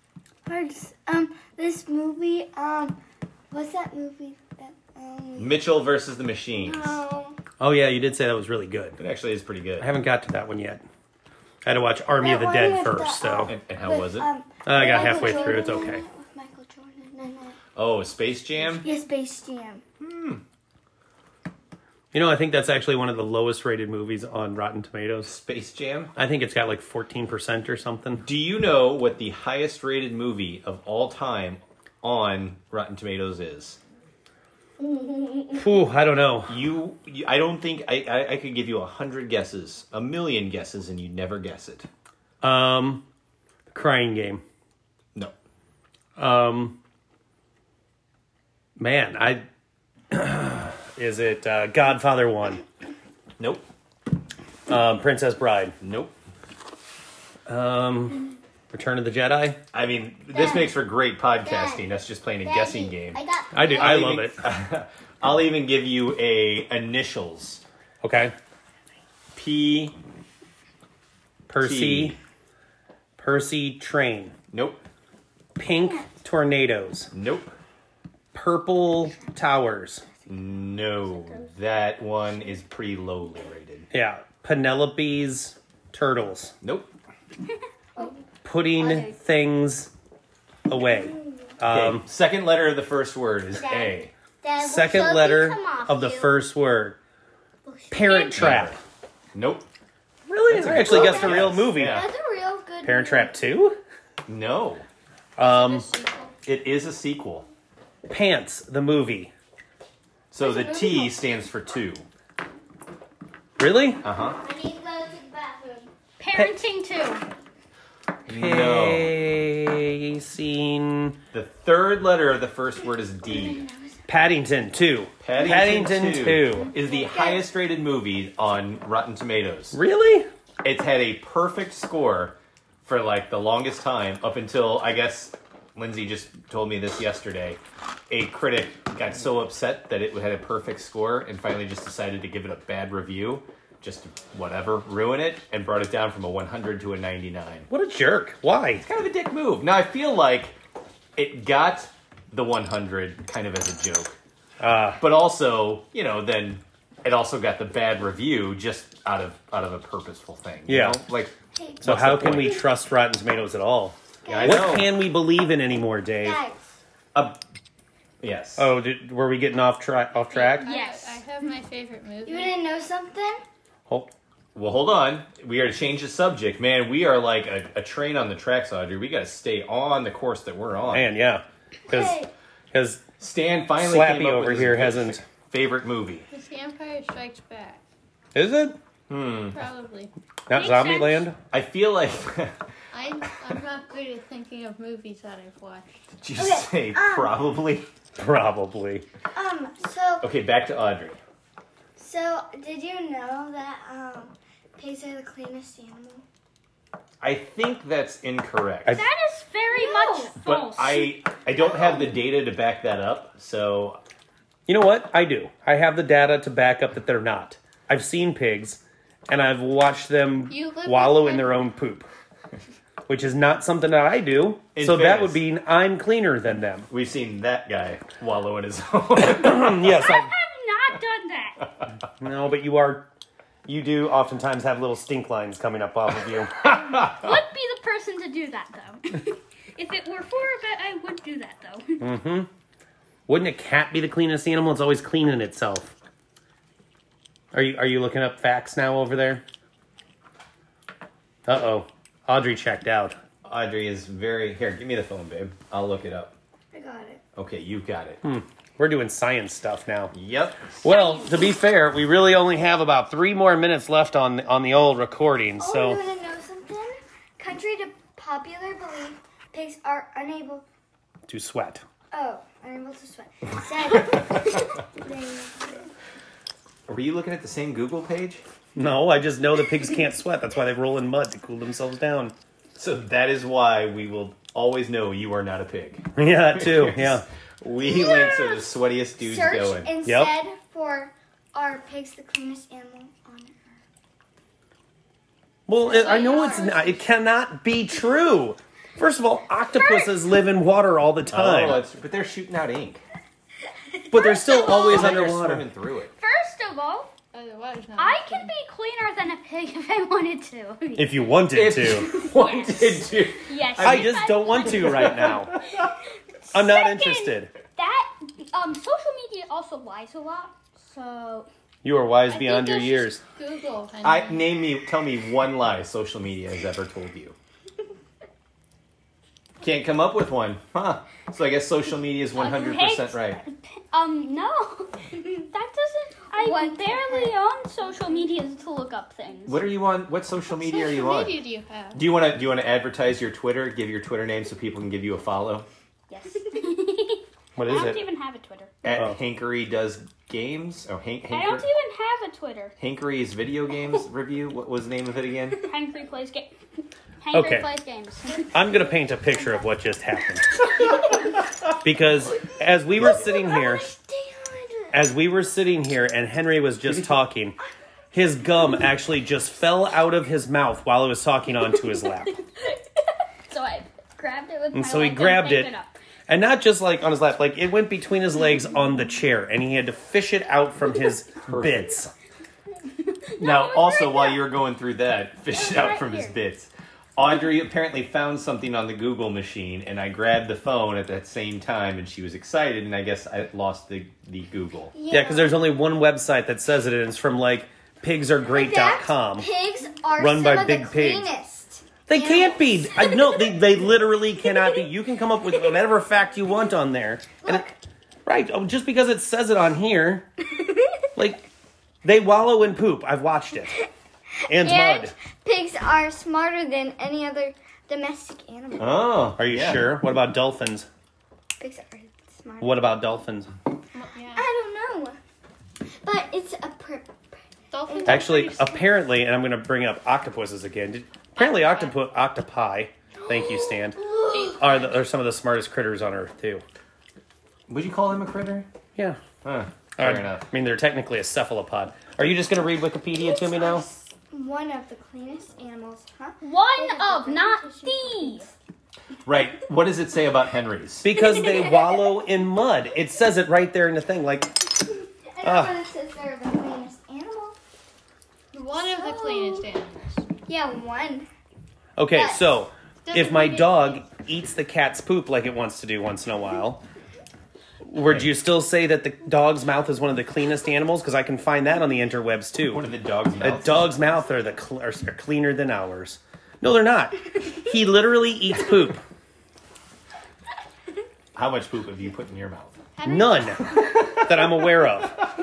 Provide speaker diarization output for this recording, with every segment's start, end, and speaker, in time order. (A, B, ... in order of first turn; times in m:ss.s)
0:00.4-0:03.0 A
0:03.5-0:05.6 A
0:05.4-0:07.0 B
0:06.6-0:07.4 A
0:07.6-0:09.0 C
0:09.0-0:09.9 B
0:09.8-0:10.8 C
0:11.6-0:13.5 C
0:12.2-0:17.6 A
0:13.4-0:14.3 B
0:14.6-0:16.0 C
0:14.8-0:15.8 D
0:17.8-0:18.8 B
0:18.8-0:19.8 A
0:20.0-0:20.4 B
0:22.1-0:25.4 C
0:25.2-0:26.1 B
0:26.2-0:28.2 C
0:28.2-0:33.8 B
0:34.8-0:35.6 D
0:35.5-0:36.6 C
0:36.5-0:41.9 B
0:42.4-0:43.0 C
0:43.7-0:44.4 C
0:46.2-0:46.8 C
0:48.8-0:49.4 C
0:50.1-0:52.6 C
0:53.4-0:53.6 B
0:54.7-0:55.7 C
0:55.8-0:56.1 B
0:57.4-0:59.6 C
0:59.7-1:07.6 B
1:00.3-1:00.8 D
1:01.4-1:01.9 D
1:02.4-1:04.0 D
1:03.5-1:04.4 C
1:08.0-1:08.3 C
1:09.3-1:10.0 B
1:11.5-1:12.2 C
1:11.6-1:12.2 B
1:13.2-1:14.3 C
1:14.5-1:14.8 B
1:15.6-1:17.1 C
1:17.1-1:17.6 B
1:18.3-1:20.0 C
1:20.3-1:23.9 B
1:23.9-1:26.5 C
1:26.6-1:26.9 B
1:28.4-1:29.9 C
1:28.8-1:29.2 D
1:30.7-1:32.0 C
1:31.6-1:34.1 B
1:33.5-1:36.4 D
1:34.6-1:37.0 C
1:37.6-1:38.6 D
1:37.9-1:38.8 C
1:38.3-1:38.8 B
1:39.3-1:39.6 B
1:40.3-1:42.0 C
1:40.5-1:42.1 B
1:40.8-1:43.4 A
1:42.8-1:43.8 C
1:44.2-1:44.8 B
1:45.4-1:45.9 C
1:45.4-1:46.3 E
1:46.4-1:47.5 B
1:48.1-1:49.3 C
1:50.3-1:52.0 B
1:50.4-1:51.2 A
1:53.6-1:54.0 C
1:54.0-1:54.4 B
1:54.3-1:55.9 D
1:56.2-1:57.2 F
1:58.3-1:59.2 B
1:58.3-2:01.2 C
2:01.3-2:03.6 B
2:03.2-2:04.0 D
2:04.1-2:06.7 C
2:05.2-2:09.8 B
2:06.8-2:07.4 A
2:09.7-2:10.3 C
2:10.6-2:27.7 B
2:27.7-2:28.8 C
2:28.8-2:30.6 B
2:31.2-2:34.2 B
2:34.6-2:35.0 C
2:35.0-2:42.6 B
2:40.7-2:41.0 C
2:41.5-2:42.6 A
2:41.8-2:46.4 C
2:44.2-2:44.9 A
2:44.3-2:44.9 B
2:46.2-2:46.6 A
2:47.1-2:47.4 B
2:48.2-2:48.7 B
2:48.6-2:50.7 C
2:50.3-2:52.7 E
2:50.6-2:51.2 F
2:52.2-2:53.4 A
2:54.5-3:01.1 B
3:00.9-3:03.0 C
3:01.9-3:02.3 A
3:03.2-3:06.3 B
3:03.8-3:05.2 C
3:06.3-3:07.8 E
3:08.3-3:08.8 C
3:09.1-3:09.6 B
3:09.5-3:10.1 E
3:10.5-3:11.4 C
3:10.5-3:11.3 F
3:11.5-3:12.6 B
3:12.9-3:15.9 E
3:16.2-3:17.9 B
3:16.4-3:17.5 A
3:18.2-3:19.0 C
3:19.3-3:20.2 A
3:20.2-3:21.2 B
3:22.0-3:26.2 A
3:27.2-3:29.0 B
3:28.9-3:31.2 F
3:29.7-3:30.3 A
3:30.4-3:34.0 B
3:31.6-3:32.1 A
3:34.6-3:42.1 C
3:40.5-3:41.7 E
3:43.1-3:46.9 C
3:44.7-3:45.4 B
3:46.9-3:49.8 B
3:49.2-3:50.3 C
3:49.8-3:51.6 F
3:52.2-3:53.1 C
3:53.6-3:56.5 C
3:57.0-4:02.1 F
4:02.0-4:02.5 C
4:03.3-4:05.9 C
4:07.5-4:09.4 C
4:11.4-4:13.2 C
4:13.4-4:16.3 B
4:16.7-4:17.2 A
4:17.4-4:18.2 B
4:18.2-4:20.1 C
4:20.1-4:20.8 B
4:20.8-4:26.0 C
4:20.8-4:21.4 F
4:25.6-4:30.6 A
4:31.3-4:31.8 C
4:32.1-4:35.8 A
4:36.9-4:38.4 B
4:38.7-4:42.3 C
4:42.8-4:49.9 B
4:46.2-4:47.2 C
4:47.8-4:48.7 A
4:49.2-4:53.8 A
4:50.0-4:50.4 C
4:55.7-5:01.8 C
4:55.8-4:56.9 A
4:55.9-4:56.8 F
4:59.8-5:00.1 F
5:01.3-5:03.0 B
5:04.1-5:05.6 C
5:04.1-5:05.2 F
5:04.6-5:06.1 B
5:06.2-5:07.1 F
5:07.3-5:08.5 E
5:08.0-5:11.2 F
5:10.9-5:12.1 C
5:11.5-5:15.4 B
5:12.1-5:15.5 F
5:13.8-5:15.6 C
5:16.4-5:21.5 F
5:16.5-5:17.5 C
5:21.8-5:23.2 C
5:22.3-5:23.2 F
5:23.4-5:24.5 E
5:24.0-5:27.4 B
5:29.6-5:33.4 B
5:32.3-5:39.7 F
5:36.3-5:37.3 A
5:39.4-5:45.6 B
5:40.5-5:42.1 E
5:46.1-5:48.7 F
5:47.6-5:48.0 C
5:48.8-5:51.7 B
5:51.3-5:52.8 F
5:52.8-5:55.7 B
5:55.6-5:56.5 F
5:57.2-5:58.5 F
5:57.3-5:57.7 C
5:58.5-6:00.8 C
5:59.3-5:59.6 A
6:01.8-6:03.9 C
6:02.5-6:05.0 A
6:04.9-6:07.6 C
6:08.1-6:12.3 C
6:12.3-6:16.0 F
6:14.7-6:15.7 C
6:16.3-6:22.1 C
6:21.4-6:21.9 B
6:23.0-6:24.5 F
6:23.4-6:34.9 B
6:25.5-6:26.4 F
6:34.9-6:35.7 A
6:35.1-6:39.5 C
6:38.5-6:43.6 A
6:40.2-6:41.3 C
6:42.1-6:47.7 C
6:44.4-6:44.8 A
6:47.4-6:47.7 A
6:48.2-6:50.3 C
6:51.2-6:51.5 C
6:52.0-6:53.7 C
6:54.5-6:55.1 C
6:54.6-6:59.1 A
6:58.8-7:00.0 B
6:59.4-7:00.9 C
7:01.6-7:03.0 A
7:02.6-7:03.5 C
7:03.9-7:04.5 E
7:04.3-7:05.2 A
7:06.0-7:08.3 A
7:07.7-7:08.9 E
7:08.0-7:16.6 C
7:11.4-7:11.9 F
7:13.3-7:14.6 A
7:14.3-7:14.7 E
7:17.7-7:18.7 B
7:19.4-7:20.4 B
7:20.0-7:23.9 C
7:23.2-7:28.5 A
7:26.4-7:28.5 F
7:29.2-7:31.1 B
7:31.0-7:34.6 C
7:35.3-7:37.6 A
7:35.4-7:35.8 C
7:38.5-7:40.2 E
7:38.7-7:39.7 A
7:40.5-7:41.3 A
7:42.0-7:46.8 C
7:42.1-7:42.4 A
7:43.0-7:44.0 A
7:47.8-7:52.9 C
7:48.0-7:48.3 B
7:52.7-7:53.9 B
7:53.4-7:59.0 C
8:01.3-8:02.8 B
8:03.0-8:04.0 E
8:03.0-8:05.2 C